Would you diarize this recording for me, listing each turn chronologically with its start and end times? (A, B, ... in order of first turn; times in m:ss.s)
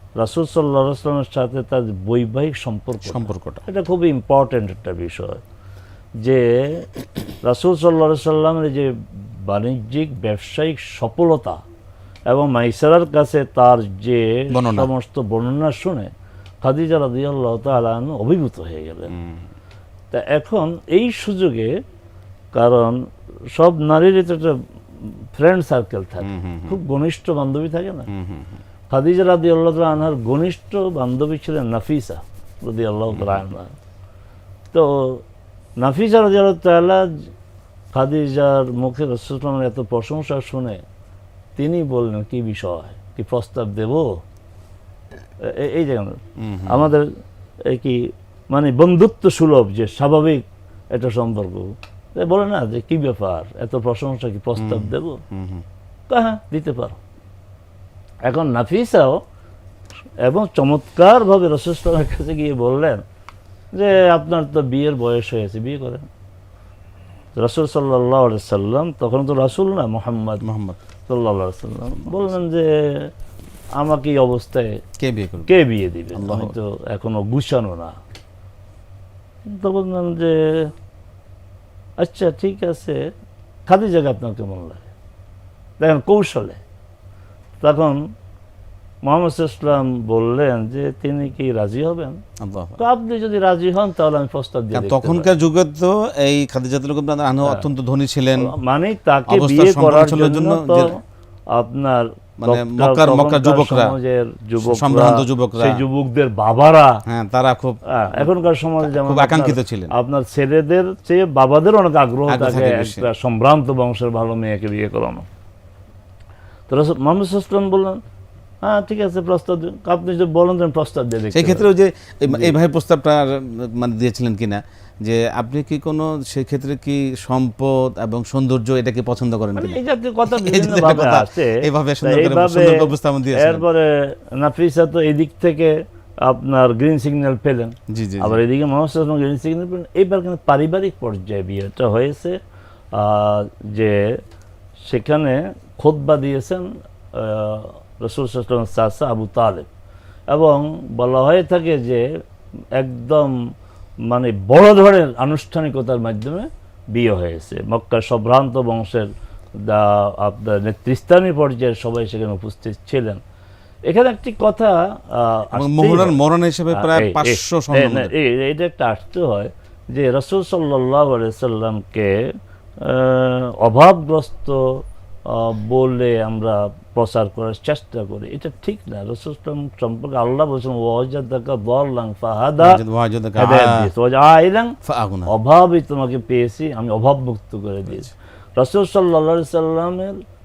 0:00.2-0:05.4 A
0:03.0-0:03.6 B
0:06.2-0:06.9 A
0:07.4-0:11.6 A
0:12.3-0:19.1 A
0:14.5-0:14.9 B
0:19.1-0:19.4 B
0:20.1-0:21.8 A
0:22.5-0:28.1 A
0:26.2-0:26.8 B
0:28.1-0:28.6 B
0:28.9-0:33.8 A
0:33.1-0:33.4 B
0:34.7-0:35.2 A
0:35.8-0:37.3 A
0:37.9-0:40.8 A
0:41.6-0:44.2 A
0:45.4-0:47.1 A
0:46.4-0:46.9 B
0:47.7-0:55.2 A
0:54.6-0:55.6 B
0:56.1-0:57.0 A
0:58.2-0:59.2 A
1:00.2-1:03.0 A
1:03.7-1:06.1 A
1:07.4-1:10.4 A
1:10.4-1:10.8 B
1:11.1-1:13.1 A
1:12.0-1:12.3 B
1:13.8-1:14.8 A
1:15.0-1:15.5 B
1:15.5-1:18.0 A
1:16.1-1:16.6 B
1:19.5-1:20.7 A
1:22.0-1:23.0 A
1:23.7-1:24.9 A
1:25.8-1:26.6 A
1:27.6-1:28.1 A
1:29.0-1:32.2 A
1:32.4-1:32.8 B
1:32.8-1:35.3 A
1:34.7-1:38.5 B
1:38.4-1:41.0 A
1:39.3-1:40.9 B
1:41.5-1:47.0 A
1:42.4-1:43.9 B
1:44.6-1:45.8 B
1:47.1-1:49.9 B
1:47.9-1:55.3 A
1:52.3-1:53.0 B
1:56.7-1:58.0 A
1:58.6-2:01.7 A
2:01.3-2:13.6 B
2:02.3-2:02.6 A
2:09.6-2:22.4 A
2:17.9-2:18.4 B
2:22.9-2:24.2 A
2:24.9-2:29.7 A
2:30.3-2:32.1 A
2:32.8-2:33.4 A
2:34.1-2:43.2 A
2:43.9-2:46.2 A
2:45.6-2:48.1 B
2:46.7-3:02.8 A
3:02.6-3:03.9 B
3:03.4-3:04.8 A
3:04.8-3:05.3 B
3:05.3-3:10.2 A